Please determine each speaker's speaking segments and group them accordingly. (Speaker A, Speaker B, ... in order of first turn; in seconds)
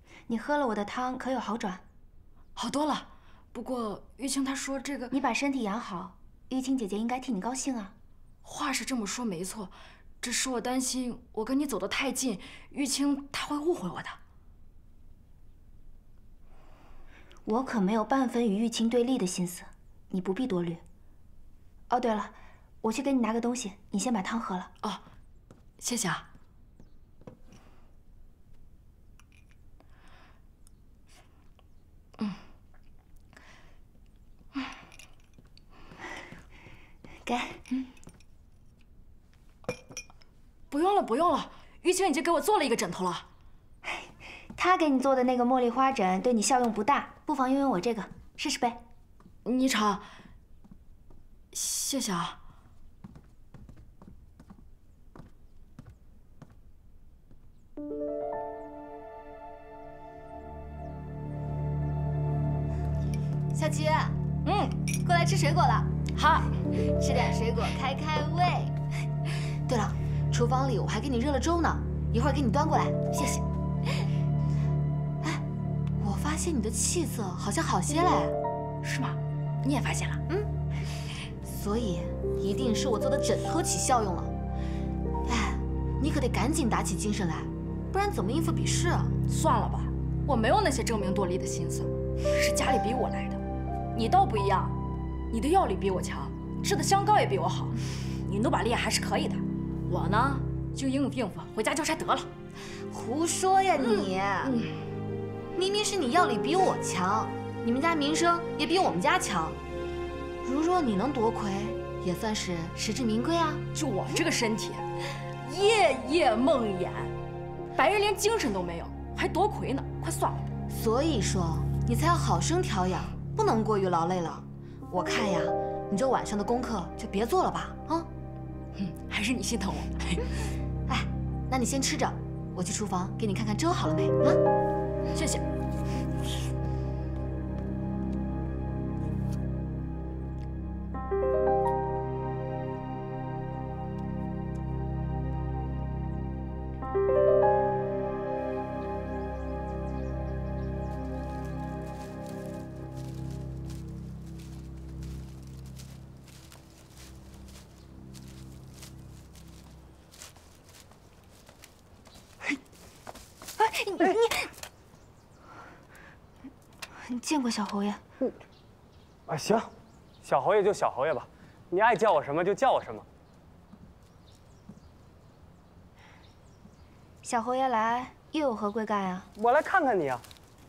Speaker A: 0.3-1.8, 5.1-8.0, 17.5-20.8, 21.9-24.7, 37.3-37.9, 43.9-48.8, 163.6-164.5, 167.0-168.0, 177.2-179.3
Speaker B: 2.6-5.2, 8.4-14.2, 25.8-26.3, 40.7-43.3, 49.5-50.1, 51.5-52.4, 64.5-64.8, 66.1-66.5, 78.8-80.2, 89.3-93.4, 93.9-94.8, 95.3-102.3, 103.8-104.8, 113.8-114.8, 115.4-117.1, 117.8-120.5, 128.8-130.3, 135.1-135.4
Speaker C: 63.5-64.2, 65.0-65.9, 66.8-68.7, 69.7-73.4, 76.0-78.3, 81.4-84.3, 85.3-89.1, 102.9-104.5, 105.5-109.6, 110.4-113.6, 120.7-128.1, 130.9-134.4
Speaker D: 169.3-169.7, 170.2-173.1, 179.4-180.2